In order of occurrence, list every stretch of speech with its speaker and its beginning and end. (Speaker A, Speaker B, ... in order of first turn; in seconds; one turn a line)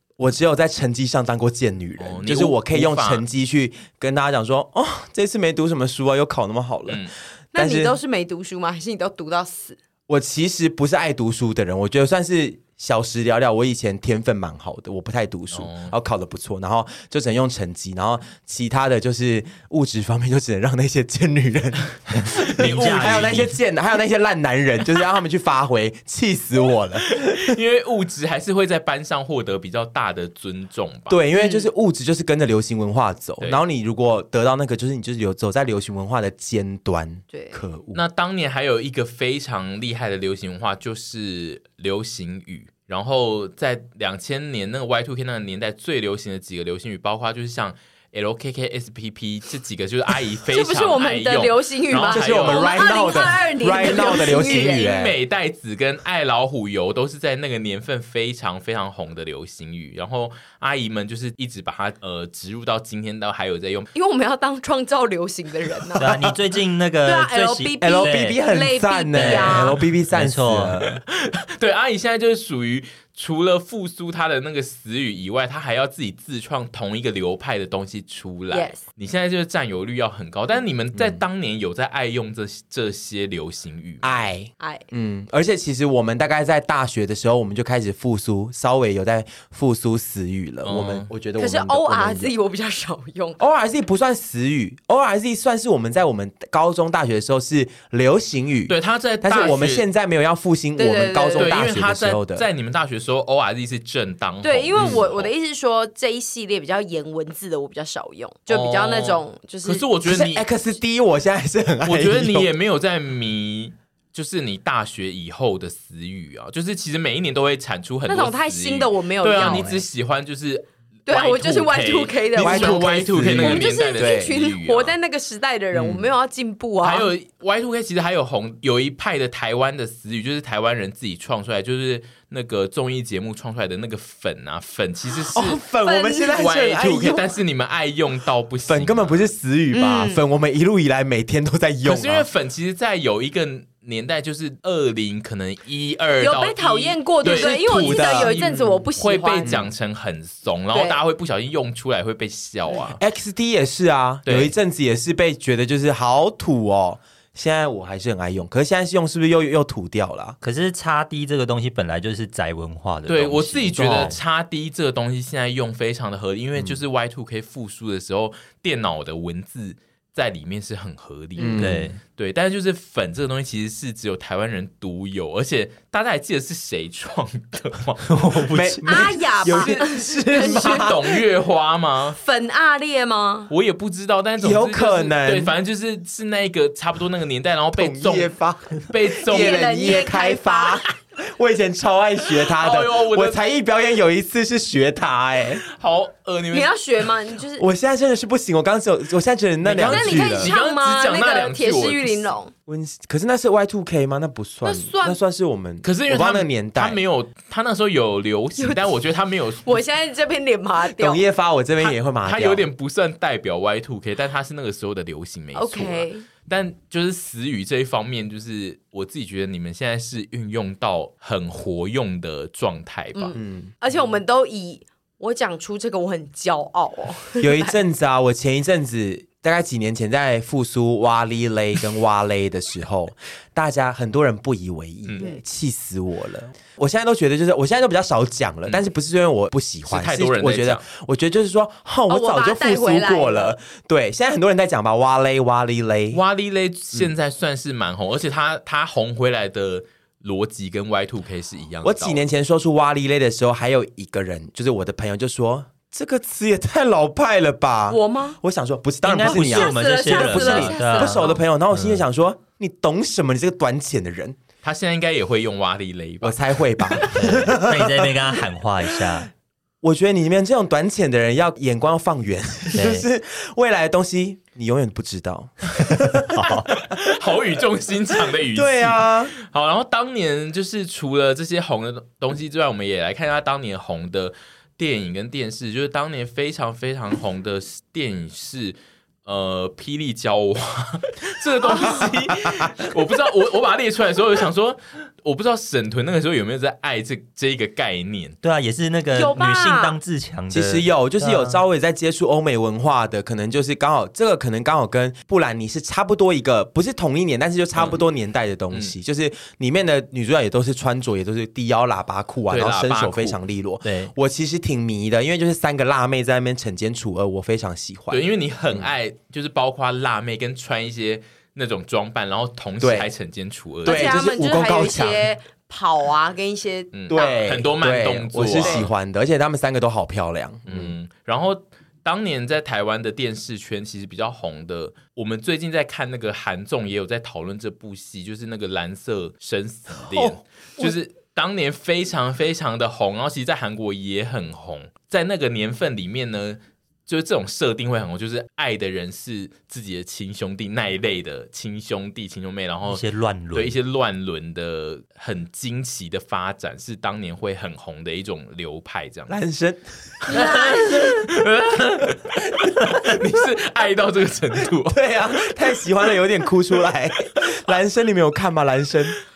Speaker A: 0.2-8.0
Speaker B: 2.0-3.2
Speaker B: 6.9-7.1
Speaker C: 7.5-9.8
Speaker A: 10.1-27.6
Speaker B: 15.5-15.9
Speaker D: 22.1-23.6
Speaker B: 22.4-23.5
Speaker B: 27.1-31.2
Speaker A: 31.1-38.0
Speaker C: 31.3-31.7
Speaker C: 37.3-37.6
Speaker B: 37.9-52.9
Speaker C: 50.5-54.9
Speaker A: 52.0-55.2
Speaker B: 53.8-63.9
Speaker C: 63.9-66.1
Speaker D: 66.0-68.4
Speaker A: 66.0-66.3
Speaker C: 67.0-69.8
Speaker A: 67.8-71.0
Speaker D: 69.1-70.8
Speaker B: 71.1-84.2
Speaker C: 78.5-78.8
Speaker A: 81.0-81.2
Speaker A: 84.0-92.3
Speaker C: 84.6-84.8
Speaker B: 90.6-91.1
Speaker C: 91.4-93.4
Speaker A: 93.4-102.5
Speaker B: 98.7-99.9
Speaker C: 100.8-101.6
Speaker B: 101.4-105.3
Speaker C: 104.4-109.9
Speaker A: 104.8-105.0
Speaker B: 108.5-110.5
Speaker A: 110.1-112.5
Speaker B: 111.8-125.0
Speaker C: 118.1-119.8
Speaker A: 119.4-119.7
Speaker C: 121.1-127.1
Speaker A: 122.4-124.3
Speaker A: 125.7-126.1
Speaker B: 126.8-135.7
Speaker A: 135.3-137.3
Speaker C: 135.8-136.4
Speaker B: 136.3-139.3
Speaker A: 138.7-142.3
Speaker C: 139.7-140.2
Speaker B: 141.8-153.0
Speaker C: 146.2-149.6
Speaker A: 147.2-148.8
Speaker A: 149.4-149.7
Speaker C: 150.7-151.0
Speaker A: 153.0-160.4
Speaker B: 154.2-154.5
Speaker D: 160.4-164.2
Speaker B: 163.1-178.4
Speaker A: 163.8-164.1
Speaker A: 171.4-171.9
Speaker C: 171.4-171.6
Speaker D: 171.6-172.0
Speaker D: 178.1-179.0
Speaker A: 178.5-181.1
Speaker C: 178.8-181.0
Speaker B: 180.4-182.2
Speaker C: 182.2-183.5
Speaker B: 183.5-188.3
Speaker A: 184.4-185.6
Speaker A: 187.7-195.6
Speaker B: 188.8-189.7
Speaker C: 189.2-190.8
Speaker B: 192.5-193.4
Speaker B: 195.7-196.7
Speaker C: 196.5-197.7
Speaker A: 197.6-200.5
Speaker B: 199.6-202.3
Speaker C: 199.8-202.5
Speaker A: 202.7-207.0
Speaker C: 204.6-205.2
Speaker B: 205.8-209.8
Speaker C: 208.6-208.9
Speaker C: 209.7-211.2
Speaker A: 210.9-212.7
Speaker B: 211.8-223.4
Speaker C: 215.5-216.3
Speaker C: 223.2-227.8
Speaker A: 223.3-223.7
Speaker A: 227.4-246.2
Speaker B: 239.9-240.8
Speaker C: 242.1-243.6
Speaker B: 246.1-252.2
Speaker A: 251.8-264.4
Speaker C: 257.9-258.4
Speaker D: 259.0-262.0
Speaker C: 259.2-261.4
Speaker B: 264.6-267.2
Speaker A: 266.2-268.2
Speaker D: 267.1-269.3
Speaker A: 269.8-276.6
Speaker D: 272.7-273.1
Speaker D: 276.3-276.7
Speaker B: 276.7-298.4
Speaker A: 278.3-279.3
Speaker D: 298.4-301.6
Speaker C: 299.1-300.0
Speaker A: 300.5-318.9
Speaker B: 312.5-313.4
Speaker D: 313.9-314.1
Speaker B: 318.1-324.2
Speaker A: 322.8-323.1
Speaker A: 323.9-325.3
Speaker C: 323.9-327.4
Speaker B: 326.9-328.9
Speaker A: 327.1-330.9
Speaker C: 328.5-328.9
Speaker B: 330.7-353.0
Speaker A: 340.1-340.9
Speaker D: 352.9-353.8
Speaker B: 353.5-359.4
Speaker A: 359.3-359.8
Speaker B: 360.3-365.0
Speaker C: 360.3-361.3
Speaker A: 364.9-369.2